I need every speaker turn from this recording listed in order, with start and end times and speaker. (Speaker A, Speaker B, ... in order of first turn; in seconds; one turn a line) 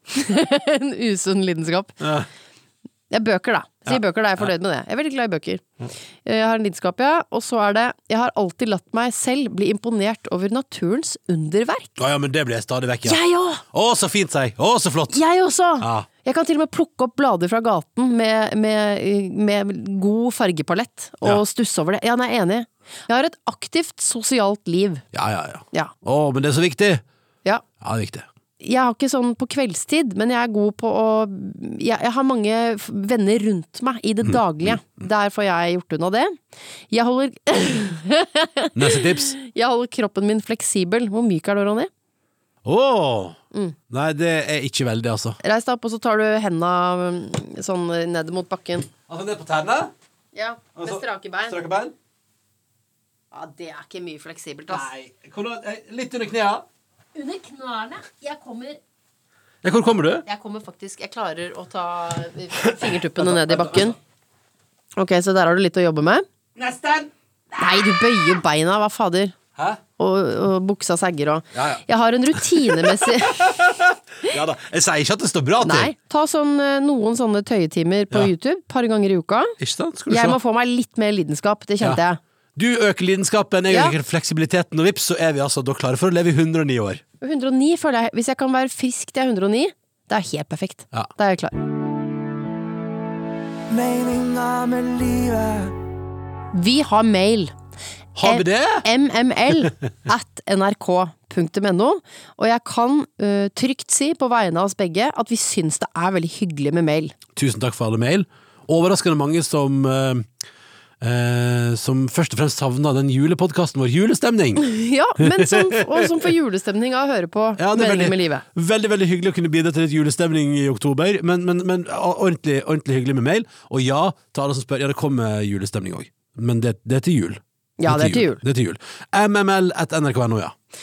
Speaker A: 0.1-2.0
Speaker B: 2.0-2.3
Speaker A: 3.1-5.6
Speaker B: 3.9-4.5
Speaker A: 6.2-12.0
Speaker B: 12.0-15.2
Speaker A: 13.0-13.6
Speaker A: 15.1-25.0
Speaker B: 15.8-16.1
Speaker B: 25.1-27.0
Speaker B: 27.8-28.3
Speaker A: 28.6-36.4
Speaker B: 34.2-34.8
Speaker A: 36.9-41.9
Speaker B: 38.8-39.3
Speaker B: 42.6-43.4
Speaker B: 43.9-45.4
Speaker A: 45.4-48.9
Speaker B: 48.9-49.9
Speaker A: 50.3-51.6
Speaker B: 50.8-51.9
Speaker A: 53.3-54.9
Speaker B: 54.7-56.6
Speaker A: 57.1-58.8
Speaker B: 59.6-60.2
Speaker A: 60.2-64.0
Speaker B: 62.6-64.0
Speaker A: 65.0-66.2
Speaker B: 66.5-68.3
Speaker A: 67.5-69.4
Speaker A: 70.0-73.6
Speaker B: 71.5-71.8
Speaker B: 72.3-75.9
Speaker A: 75.6-79.5
Speaker B: 79.6-80.4
Speaker A: 80.1-82.2
Speaker B: 82.5-87.0
Speaker A: 83.7-83.9
Speaker A: 87.2-91.6
Speaker C: 93.7-95.7
Speaker A: 96.5-97.5
Speaker B: 98.2-98.9
Speaker A: 98.2-107.1
Speaker B: 107.3-110.3
Speaker B: 111.0-114.6
Speaker A: 114.6-118.4
Speaker B: 115.2-116.3
Speaker B: 117.6-130.5
Speaker A: 127.8-128.4